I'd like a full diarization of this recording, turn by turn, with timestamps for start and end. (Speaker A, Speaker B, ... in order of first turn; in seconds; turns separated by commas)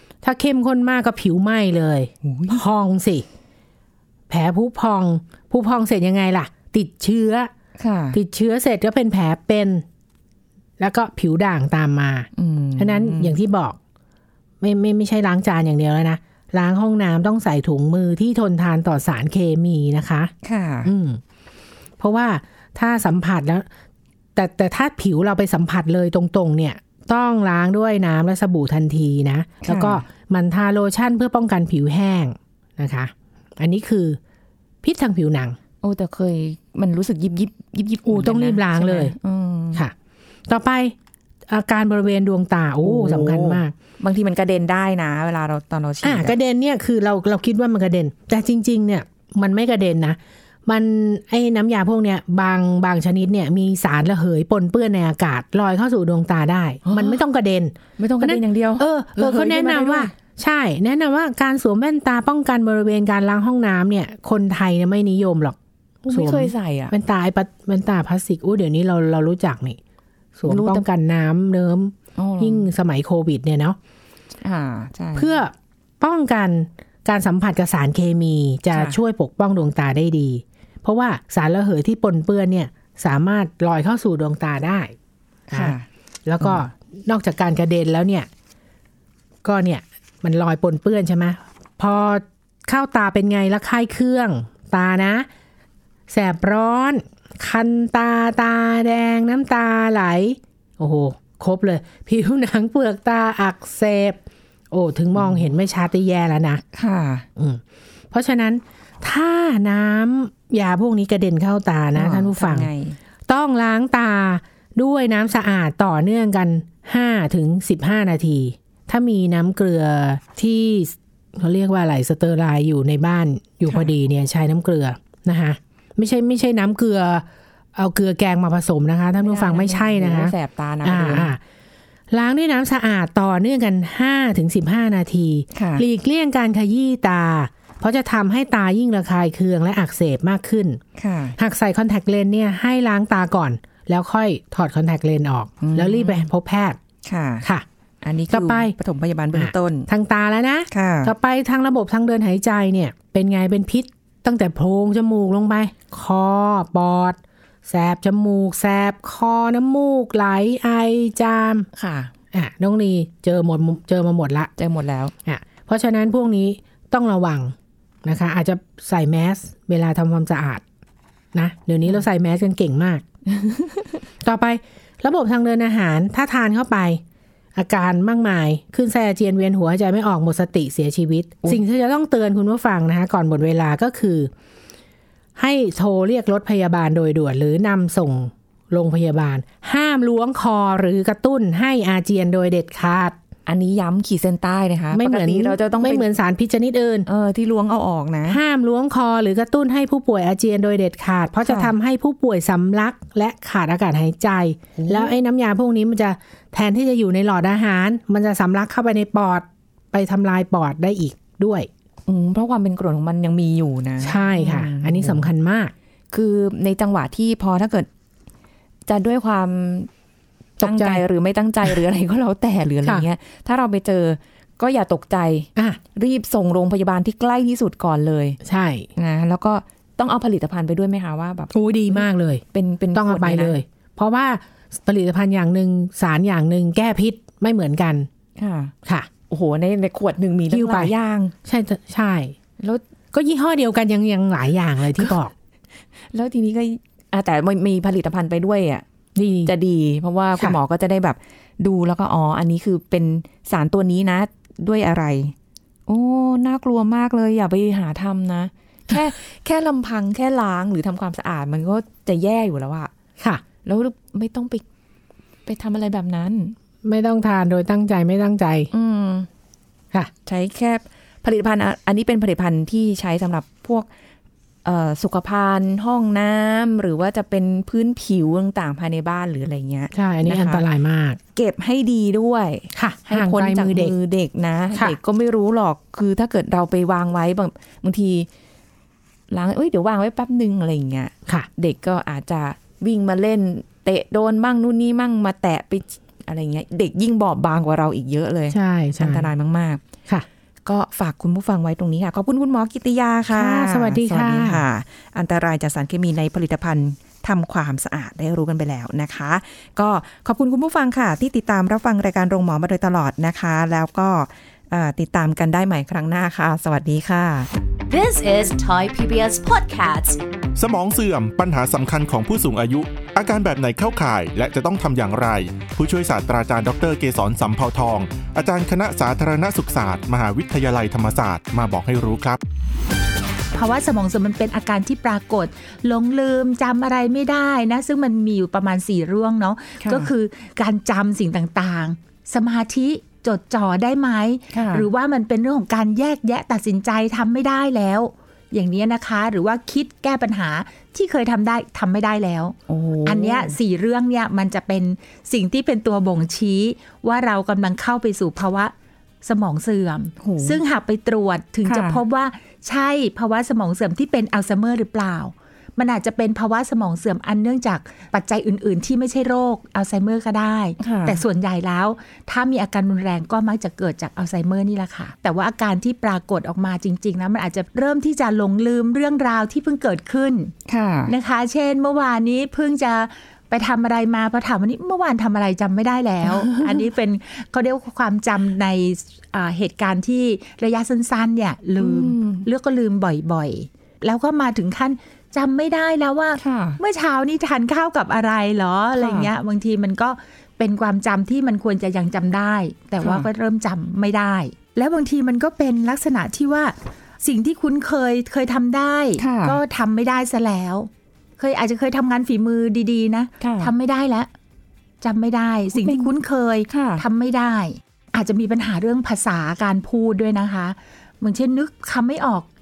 Speaker A: 0.2-3.2, Speaker B: 2.2-2.6, Speaker A: 4.3-7.5, Speaker B: 7.8-8.2, Speaker A: 8.1-9.8, Speaker A: 10.8-13.8, Speaker B: 12.3-13.4, Speaker A: 14.6-20.3, Speaker B: 20.4-20.9, Speaker A: 20.8-21.2, Speaker A: 22.0-23.6, Speaker A: 24.4-34.2, Speaker B: 29.6-30.0, Speaker A: 34.8-35.6, Speaker B: 35.8-39.8, Speaker A: 38.0-39.1, Speaker A: 40.5-40.9, Speaker A: 41.5-43.7, Speaker B: 42.8-46.4, Speaker A: 46.0-65.6, Speaker B: 56.8-57.2, Speaker B: 58.0-60.1, Speaker B: 66.0-66.9, Speaker A: 66.1-69.8, Speaker A: 70.3-73.8, Speaker B: 70.5-70.8, Speaker B: 72.2-72.7, Speaker B: 74.4-75.4, Speaker A: 75.1-84.9, Speaker B: 78.7-79.0, Speaker A: 85.5-88.3, Speaker B: 85.5-85.9, Speaker B: 86.4-86.7, Speaker A: 89.4-95.3, Speaker A: 96.1-106.6, Speaker B: 105.1-105.5, Speaker B: 106.7-107.2, Speaker A: 107.4-112.7, Speaker B: 111.9-113.0, Speaker A: 113.3-131.4, Speaker B: 129.2-131.3, Speaker A: 132.1-140.8, Speaker B: 135.5-135.8, Speaker B: 140.9-141.4, Speaker A: 141.4-146.8, Speaker B: 145.6-146.3, Speaker B: 147.0-147.4, Speaker B: 148.0-149.9, Speaker A: 148.3-148.7, Speaker A: 149.3-161.7, Speaker B: 150.7-151.1, Speaker B: 161.8-162.1, Speaker A: 162.3-164.5, Speaker B: 164.6-165.1, Speaker A: 165.2-170.6, Speaker A: 171.3-173.0, Speaker B: 173.3-174.0, Speaker A: 174.2-177.0, Speaker A: 177.6-184.3, Speaker A: 185.3-193.2, Speaker B: 193.5-196.1, Speaker A: 194.9-197.1, Speaker B: 197.1-198.4, Speaker A: 198.3-211.7, Speaker B: 201.4-201.7, Speaker B: 204.8-205.2, Speaker B: 212.1-215.3, Speaker A: 214.0-215.7, Speaker B: 216.1-217.9, Speaker B: 218.9-219.9, Speaker A: 220.6-221.0, Speaker B: 220.6-228.4, Speaker A: 228.4-228.9, Speaker B: 228.9-233.6, Speaker A: 231.5-232.4, Speaker A: 232.9-238.1, Speaker B: 238.4-238.7, Speaker B: 239.3-241.3, Speaker A: 240.5-240.9, Speaker A: 241.4-242.3, Speaker A: 243.1-245.3, Speaker B: 246.1-248.8, Speaker A: 249.2-249.5, Speaker B: 249.4-255.3, Speaker B: 255.9-262.9, Speaker B: 263.6-264.6, Speaker B: 265.4-266.5, Speaker A: 266.8-268.7, Speaker B: 268.7-269.3, Speaker B: 270.2-273.9, Speaker B: 274.6-280.6, Speaker A: 279.9-281.2, Speaker B: 281.3-288.3, Speaker A: 282.7-283.9, Speaker B: 289.3-299.8, Speaker A: 298.5-299.3, Speaker B: 300.6-317.5, Speaker A: 303.3-304.6, Speaker C: 317.9-320.2, Speaker D: 320.6-332.4, Speaker E: 333.5-380.5, Speaker B: 339.8-340.1, Speaker B: 344.5-344.9, Speaker B: 352.7-353.6, Speaker B: 360.2-360.6, Speaker B: 361.6-362.0, Speaker B: 370.8-371.2, Speaker B: 380.7-381.1, Speaker E: 381.1-414.3, Speaker B: 391.8-392.5, Speaker B: 396.4-396.8, Speaker B: 399.0-399.3, Speaker B: 403.0-403.3, Speaker B: 409.2-409.6, Speaker B: 413.4-413.7, Speaker E: 415.0-422.5, Speaker B: 415.7-416.1, Speaker B: 416.7-417.0